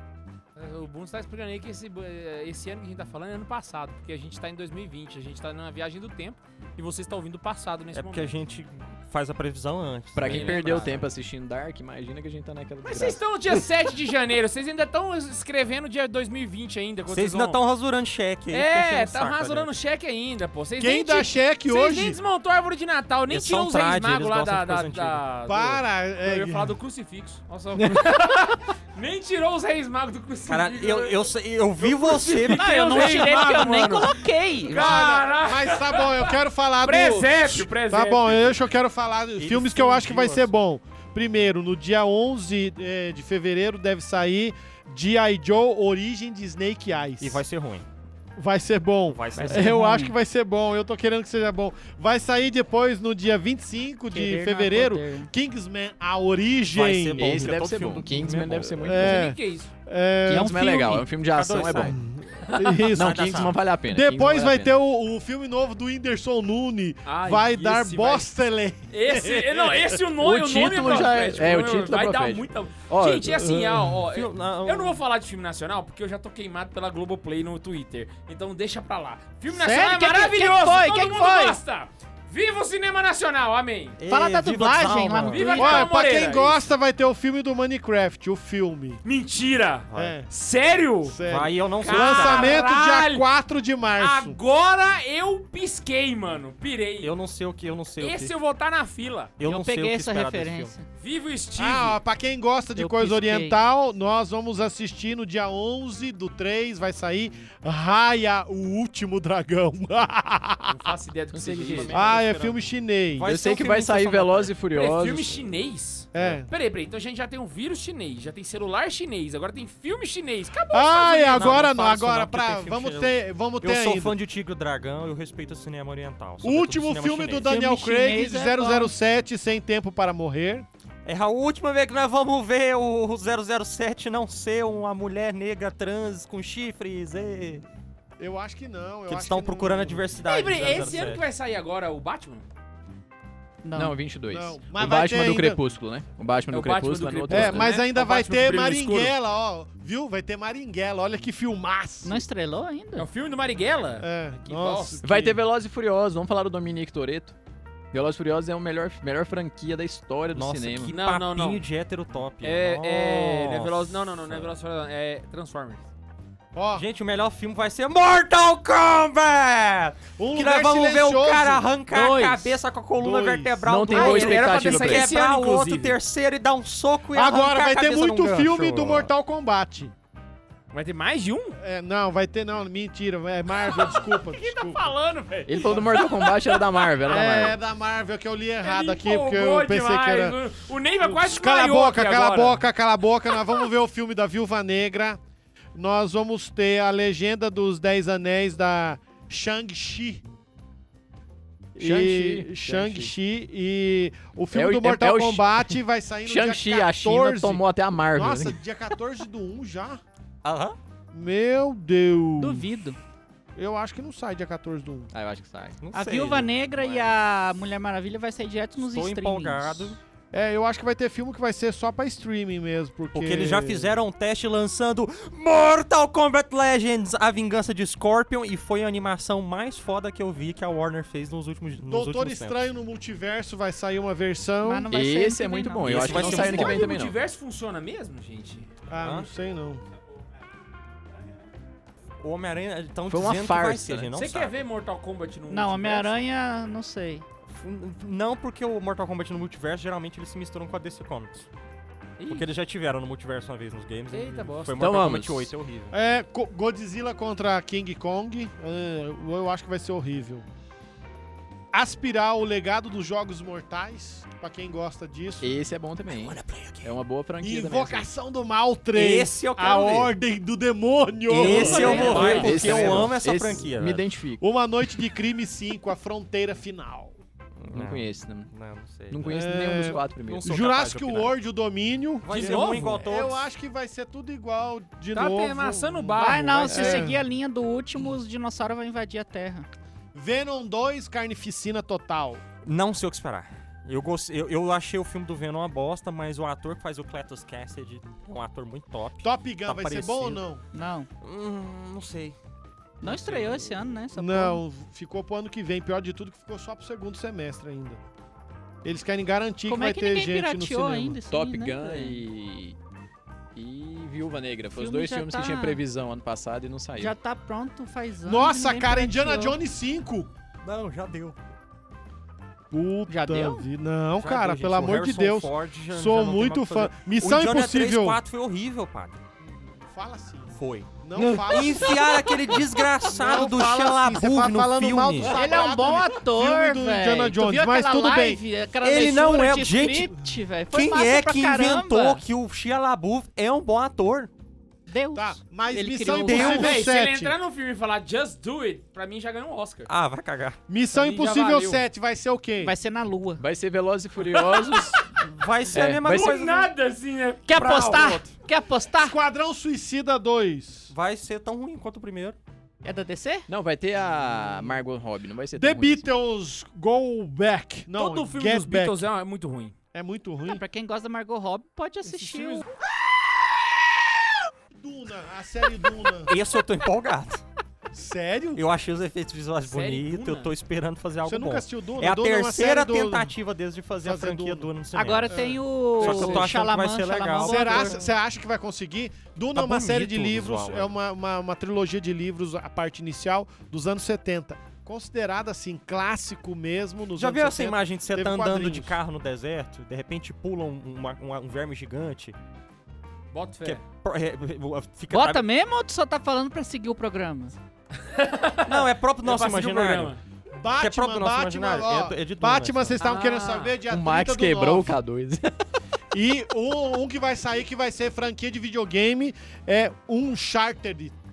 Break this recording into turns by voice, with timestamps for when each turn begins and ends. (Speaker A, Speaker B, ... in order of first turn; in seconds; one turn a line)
Speaker A: 0.6-8.4
Speaker B: 7.9-11.1
Speaker C: 10.1-13.2
Speaker A: 10.2-11.1
Speaker A: 12.8-17.6
Speaker B: 17.1-19.7
Speaker A: 18.5-38.6
Speaker D: 20.8-22.2
Speaker B: 23.3-25.2
Speaker D: 25.5-26.8
Speaker D: 27.8-28.5
Speaker B: 30.5-33.4
Speaker E: 32.5-35.1
Speaker D: 34.7-47.4
Speaker B: 39.4-40.5
Speaker B: 47.2-47.9
Speaker D: 48.4-57.6
Speaker B: 49.1-50.0
Speaker E: 49.4-50.1
Speaker E: 54.1-55.3
Speaker B: 56.7-59.1
Speaker C: 57.2-59.2
Speaker D: 58.8-61.0
Speaker A: 58.9-59.7
Speaker C: 60.3-62.0
Speaker E: 60.3-61.0
Speaker B: 61.3-62.0
Speaker D: 61.8-70.0
Speaker A: 62.5-62.8
Speaker C: 62.9-64.7
Speaker B: 63.0-63.6
Speaker A: 67.1-68.3
Speaker A: 68.9-84.0
Speaker C: 70.2-73.8
Speaker B: 74.1-75.0
Speaker E: 79.5-81.6
Speaker B: 84.0-85.7
Speaker E: 84.1-85.9
Speaker A: 85.2-86.6
Speaker D: 85.6-89.0
Speaker A: 89.0-91.2
Speaker B: 89.9-90.2
Speaker D: 89.9-90.3
Speaker D: 91.0-94.4
Speaker B: 91.2-92.6
Speaker A: 91.8-93.3
Speaker A: 94.0-97.1
Speaker B: 97.0-98.3
Speaker A: 98.0-99.3
Speaker B: 99.4-100.7
Speaker E: 99.4-100.9
Speaker A: 101.0-102.0
Speaker D: 101.6-111.0
Speaker E: 102.8-103.6
Speaker A: 110.7-112.2
Speaker C: 111.3-111.9
Speaker B: 111.7-112.6
Speaker D: 111.9-113.3
Speaker B: 113.2-114.5
Speaker C: 113.2-115.5
Speaker A: 114.7-121.7
Speaker D: 116.1-116.5
Speaker D: 120.7-124.2
Speaker B: 121.2-127.5
Speaker D: 126.4-130.7
Speaker E: 127.5-128.9
Speaker B: 131.1-137.6
Speaker D: 138.2-141.0
Speaker B: 139.1-141.2
Speaker A: 140.2-142.5
Speaker E: 143.6-144.0
Speaker C: 143.8-147.8
Speaker D: 144.3-145.6
Speaker A: 146.5-149.1
Speaker D: 147.3-152.2
Speaker E: 152.0-153.1
Speaker A: 153.0-155.0
Speaker D: 154.0-155.4
Speaker C: 155.0-157.3
Speaker C: 157.9-160.9
Speaker B: 160.3-164.5
Speaker A: 160.9-161.6
Speaker A: 162.4-165.9
Speaker D: 166.5-166.8
Speaker B: 166.8-179.1
Speaker D: 170.2-171.7
Speaker E: 171.9-172.6
Speaker D: 173.0-173.6
Speaker C: 173.6-175.1
Speaker A: 173.9-176.0
Speaker D: 177.1-179.9
Speaker A: 180.7-181.6
Speaker D: 181.6-184.9
Speaker A: 183.6-187.0
Speaker C: 185.5-187.6
Speaker D: 187.0-190.4
Speaker A: 188.6-192.6
Speaker D: 191.0-195.2
Speaker D: 195.8-200.2
Speaker D: 201.8-210.0
Speaker C: 201.8-203.1
Speaker C: 204.5-205.7
Speaker C: 206.3-208.6
Speaker B: 210.4-210.8
Speaker D: 211.1-212.7
Speaker E: 212.4-213.0
Speaker D: 213.6-215.1
Speaker C: 215.1-215.8
Speaker B: 215.8-217.1
Speaker E: 215.9-220.0
Speaker B: 218.8-220.0
Speaker D: 220.3-224.0
Speaker B: 223.1-232.6
Speaker D: 231.8-234.9
Speaker E: 234.6-236.8
Speaker C: 234.9-237.2
Speaker B: 235.8-236.8
Speaker A: 236.1-238.7
Speaker D: 238.9-239.8
Speaker B: 239.0-239.3
Speaker B: 242.2-244.6
Speaker C: 243.1-244.1
Speaker A: 244.2-246.1
Speaker E: 245.5-247.2
Speaker B: 247.5-251.5
Speaker A: 252.2-252.5
Speaker B: 252.3-255.9
Speaker A: 254.1-254.8
Speaker C: 254.8-255.5
Speaker D: 255.9-260.4
Speaker D: 261.7-265.6
Speaker C: 265.4-268.1
Speaker B: 266.1-266.9
Speaker D: 267.4-273.0
Speaker B: 268.9-270.1
Speaker B: 271.3-274.1
Speaker A: 271.4-273.0
Speaker C: 271.4-274.4
Speaker E: 271.7-272.1
Speaker D: 274.4-277.1
Speaker B: 277.6-279.4
Speaker C: 277.7-278.5
Speaker C: 279.1-280.5
Speaker D: 279.3-287.2
Speaker B: 280.2-281.4
Speaker B: 282.2-283.5
Speaker A: 282.3-283.0
Speaker A: 285.1-287.1
Speaker E: 286.2-289.7
Speaker D: 290.1-292.4
Speaker B: 292.6-300.4
Speaker D: 299.2-300.6
Speaker E: 300.7-301.1
Speaker B: 301.2-302.4
Speaker E: 303.0-304.6
Speaker B: 303.0-303.7
Speaker D: 304.2-308.0
Speaker D: 308.8-311.2
Speaker E: 309.7-312.2
Speaker C: 311.3-312.8
Speaker C: 313.6-317.1
Speaker E: 314.8-315.8
Speaker E: 317.0-319.6
Speaker D: 318.2-320.3
Speaker B: 320.6-321.4
Speaker D: 322.7-328.2
Speaker E: 323.1-323.7
Speaker B: 324.2-329.2
Speaker D: 329.4-338.4
Speaker B: 330.6-335.3
Speaker E: 335.2-342.2
Speaker B: 338.8-340.1
Speaker B: 340.7-344.3
Speaker E: 344.9-346.7
Speaker D: 345.1-347.3
Speaker B: 346.2-346.8
Speaker A: 346.3-349.9
Speaker B: 349.9-350.6
Speaker D: 350.7-352.7
Speaker A: 350.9-351.8
Speaker E: 352.6-353.4
Speaker C: 353.4-355.1
Speaker A: 354.2-355.1
Speaker B: 355.2-356.7
Speaker C: 355.7-356.3
Speaker A: 356.0-358.2
Speaker E: 357.5-359.2
Speaker B: 357.6-358.2
Speaker D: 358.9-360.9
Speaker B: 360.9-362.4
Speaker E: 362.8-363.5
Speaker C: 363.5-366.1
Speaker D: 365.5-369.1
Speaker A: 367.9-369.8
Speaker D: 369.9-370.6
Speaker E: 370.5-372.7
Speaker D: 372.1-372.6
Speaker D: 374.7-376.4
Speaker B: 376.3-377.4
Speaker D: 377.9-378.6
Speaker B: 378.6-385.5
Speaker A: 379.6-380.5
Speaker D: 381.2-383.3
Speaker D: 384.0-384.7
Speaker E: 384.9-388.1
Speaker D: 385.3-386.5
Speaker B: 386.0-388.0
Speaker D: 387.4-399.0
Speaker B: 389.6-390.9
Speaker B: 397.2-402.4
Speaker A: 403.3-403.8
Speaker B: 403.6-405.5
Speaker E: 405.1-407.6
Speaker A: 408.0-410.2
Speaker B: 408.7-410.1
Speaker D: 410.6-415.0
Speaker B: 410.8-413.0
Speaker A: 413.0-413.8
Speaker C: 413.9-415.5
Speaker D: 416.1-421.1